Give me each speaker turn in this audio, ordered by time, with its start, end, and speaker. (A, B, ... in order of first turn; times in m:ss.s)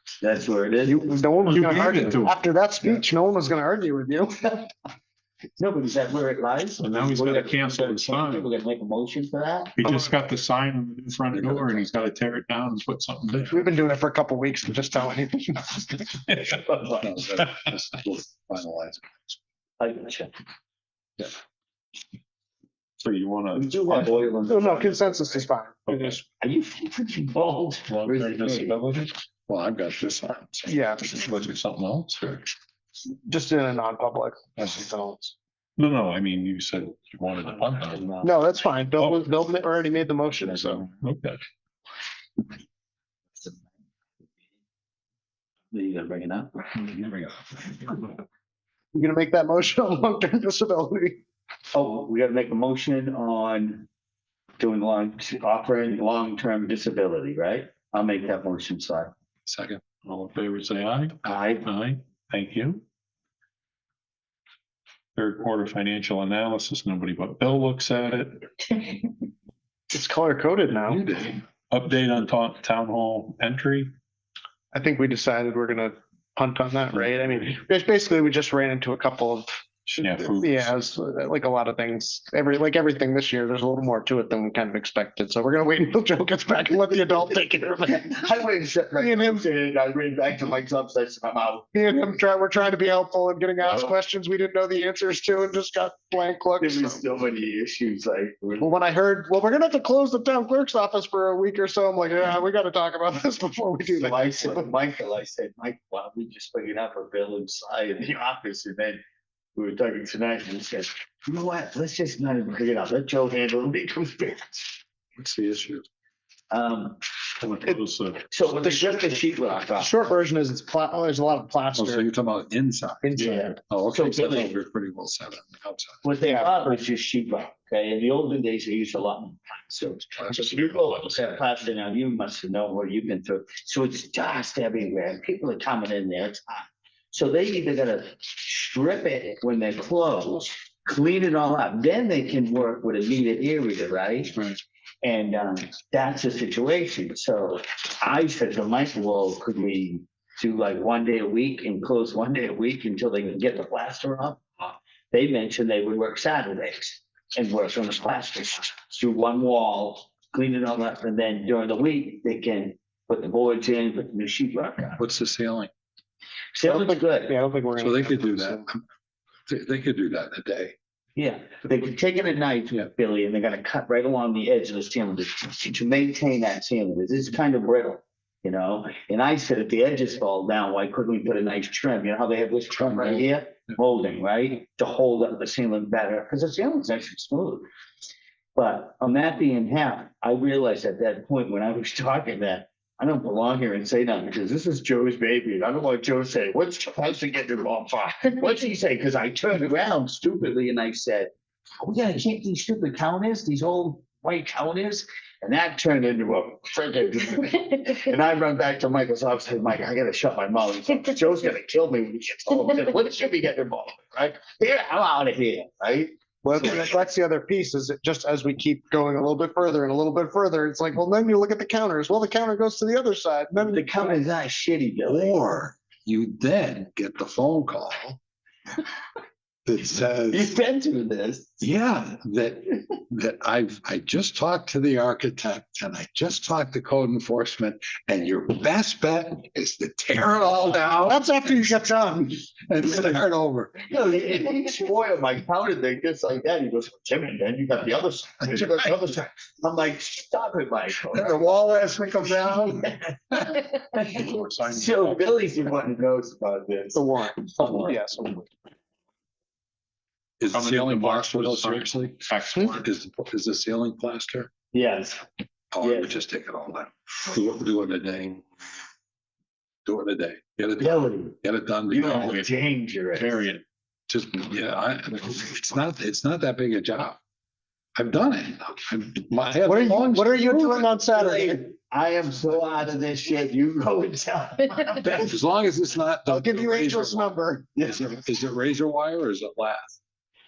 0:00.2-0:01.6 A
0:00.8-0:04.7 B
0:01.5-0:02.4 C
0:05.6-0:09.7 A
0:06.8-0:08.5 C
0:09.8-0:13.6 C
0:09.8-0:10.2 B
0:13.4-0:16.1 B
0:16.4-0:17.2 A
0:17.0-0:19.2 D
0:19.8-0:20.3 A
0:23.0-0:24.2 C
0:23.5-0:25.5 A
0:24.4-0:26.2 B
0:25.9-0:26.2 C
0:26.4-0:28.8 A
0:27.9-0:29.1 C
0:29.5-0:31.0 D
0:30.7-0:31.2 B
0:31.1-0:32.4 C
0:33.3-0:35.3 B
0:35.8-0:38.0 C
0:37.9-0:38.5 A
0:38.2-0:40.9 B
0:39.0-0:39.2 C
0:40.9-0:41.4 C
0:45.7-0:48.1 A
0:48.9-0:51.2 B
0:51.7-0:53.9 A
0:54.6-0:59.1 A
0:59.5-0:59.8 D
0:59.5-1:02.8 C
1:01.2-1:01.7 A
1:05.2-1:08.5 C
1:09.9-1:11.1 B
1:10.8-1:11.4 D
1:11.7-1:14.0 C
1:14.7-1:19.5 B
1:19.9-1:20.2 D
1:19.9-1:20.7 C
1:20.3-1:28.1 B
1:27.9-1:31.7 A
1:29.0-1:29.4 B
1:31.7-1:37.0 B
1:36.6-1:38.8 A
1:38.6-1:44.7 B
1:43.9-1:49.0 A
1:49.6-1:54.8 A
1:55.2-1:55.8 D
1:56.5-1:57.0 A
1:57.4-1:58.2 C
1:58.3-1:59.9 A
1:58.6-1:59.2 B
1:59.7-2:02.0 B
2:01.8-2:06.0 D
2:03.0-2:03.6 B
2:03.9-2:04.6 A
2:06.0-2:24.4 A
2:06.3-2:06.7 B
2:10.2-2:10.6 D
2:25.0-2:45.0 A
2:45.0-2:45.7 D
2:46.6-2:47.3 A
2:46.6-2:48.6 B
2:47.8-2:48.8 D
2:49.5-2:50.8 D
2:51.2-3:07.7 A
3:02.8-3:03.3 D
3:08.6-3:21.3 A
3:21.8-3:37.0 A
3:36.4-3:44.2 B
3:43.6-3:45.4 A
3:45.1-3:48.2 D
3:49.6-3:50.5 D
3:50.3-3:51.6 A
3:51.6-4:01.8 D
4:01.0-4:02.4 B
4:02.7-4:03.8 D
4:03.8-4:11.5 A
4:08.6-4:08.8 D
4:11.1-4:13.5 D
4:13.3-4:18.0 A
4:14.1-4:15.4 C
4:16.9-4:18.5 B
4:20.4-4:24.5 D
4:20.5-4:22.9 C
4:24.7-4:25.2 A
4:25.7-4:28.4 D
4:25.8-4:26.2 A
4:29.8-4:32.4 D
4:30.8-4:31.4 A
4:31.9-4:33.5 A
4:32.0-4:32.5 C
4:33.1-4:33.6 C
4:34.1-4:37.2 D
4:38.0-4:40.9 D
4:39.6-4:41.6 B
4:41.1-4:45.2 A
4:45.0-4:50.0 D
4:46.3-4:47.7 B
4:47.8-4:48.1 A